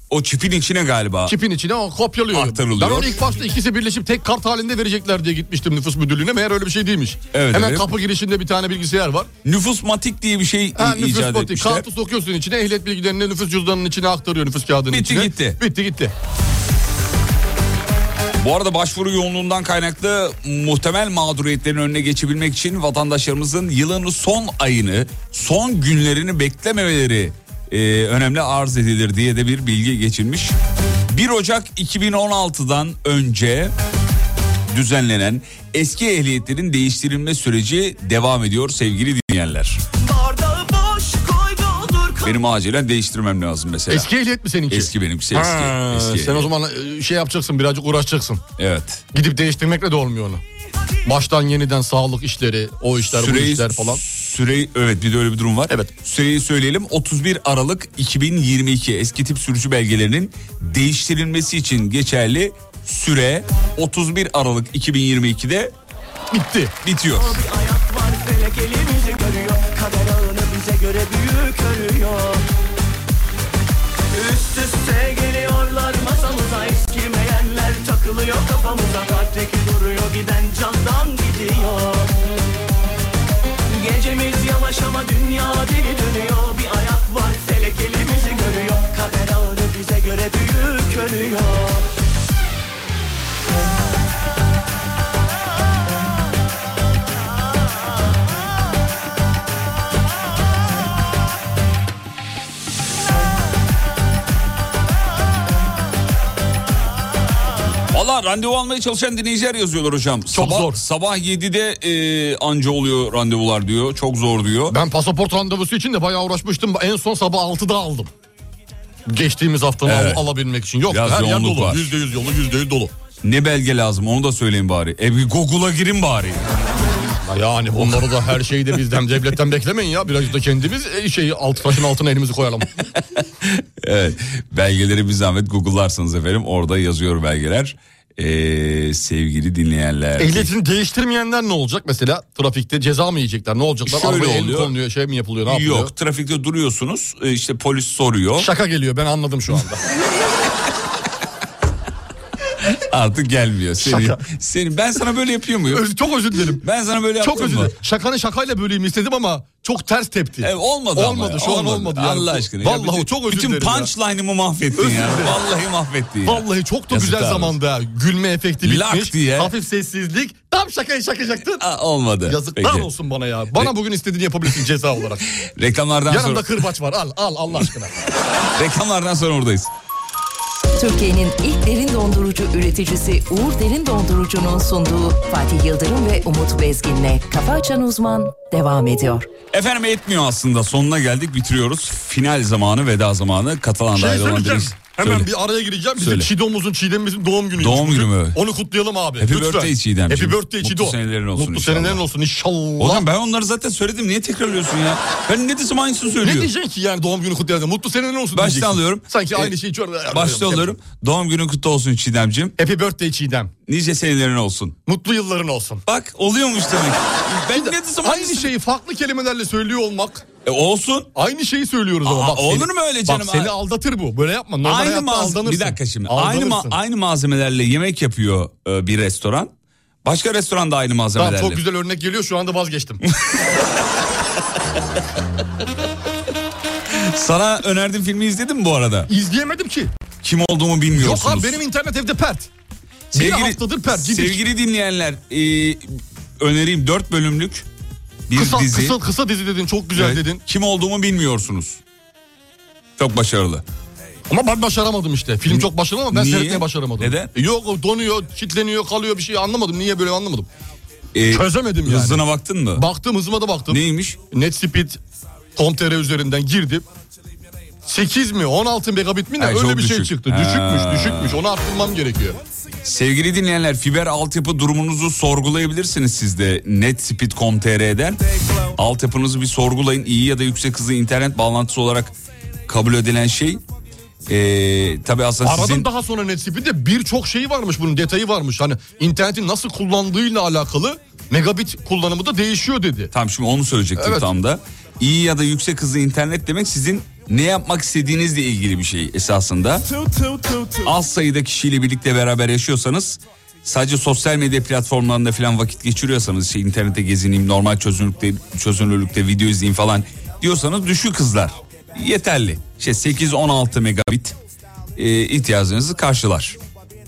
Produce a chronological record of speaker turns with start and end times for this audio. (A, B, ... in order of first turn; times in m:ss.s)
0:00.1-0:01.4 A
0:01.3-0:09.3 B
0:02.3-0:03.3 A
0:07.3-0:07.9 A
0:09.4-0:11.9 A
0:10.8-0:16.1 B
0:14.9-0:15.6 A
0:18.4-0:30.6 A
0:31.1-0:33.8 A
0:34.7-0:39.8 A
0:40.0-0:42.4 C
0:42.2-0:44.1 A
0:43.9-0:48.4 B
0:44.7-0:46.5 A
0:48.6-0:49.0 A
0:49.1-0:50.4 B
0:51.0-0:54.0 B
0:53.1-1:05.7 A
1:06.3-1:06.8 B
1:06.8-1:07.4 A
1:07.2-1:12.4 C
1:14.1-1:22.1 C
1:23.7-1:31.9 C
1:47.9-1:54.8 A
1:50.3-1:50.8 B
1:54.7-1:58.1 B
1:59.1-2:02.9 B
1:59.8-2:00.3 A
2:00.9-2:02.0 A
2:03.2-2:06.5 A
2:07.1-2:12.7 B
2:07.8-2:08.5 A
2:13.0-2:20.5 A
2:20.2-2:25.9 B
2:23.8-2:24.8 A
2:25.4-2:28.5 A
2:28.4-2:29.8 B
2:32.6-2:35.9 A
2:33.8-2:34.2 B
2:35.7-2:36.6 B
2:36.6-2:37.8 A
2:37.2-2:43.9 B
2:40.4-2:47.6 A
2:44.8-2:45.4 B
2:46.2-2:51.6 B
2:48.6-2:49.5 A
2:51.6-2:52.9 A
2:52.3-2:55.3 B
2:55.4-2:56.7 A
2:56.1-2:57.9 B
2:58.4-2:59.7 A
3:00.8-3:09.3 D
3:09.5-3:15.3 A
3:13.9-3:23.1 B
3:16.0-3:16.3 A
3:17.6-3:18.4 A
3:19.2-3:22.0 A
3:22.8-3:26.5 A
3:26.2-3:30.8 B
3:28.3-3:29.6 A
3:30.1-3:32.6 A
3:32.6-3:33.5 B
3:33.7-3:34.8 A
3:34.9-3:35.8 B
3:35.9-3:38.5 A
3:37.5-3:40.3 B
3:40.4-3:41.1 A
3:41.2-3:46.8 B
3:42.0-3:43.5 A
3:44.6-3:49.5 A
3:50.0-3:51.6 A
3:51.2-3:53.0 B
3:56.9-3:59.1 A
3:59.1-3:59.9 B
4:00.2-4:01.6 A
4:00.9-4:02.5 B
4:03.1-4:04.4 B
4:03.1-4:07.7 A
4:08.3-4:09.0 A
4:08.3-4:10.4 B
4:09.9-4:11.8 A
4:13.0-4:13.6 A
4:14.3-4:20.5 B
4:15.5-4:17.3 A
4:21.1-4:22.8 A
4:21.3-4:25.0 B
4:23.7-4:24.2 A
4:25.6-4:26.8 B
4:27.8-4:32.4 B
4:29.4-4:31.4 A
4:32.8-4:38.2 A
4:38.8-4:42.2 A
4:42.7-4:43.6 A
4:44.3-4:45.9 A
4:45.4-4:53.1 B
4:53.1-4:59.9 A
4:54.0-4:54.3 B
5:00.8-5:14.4 A
5:15.0-5:16.6 A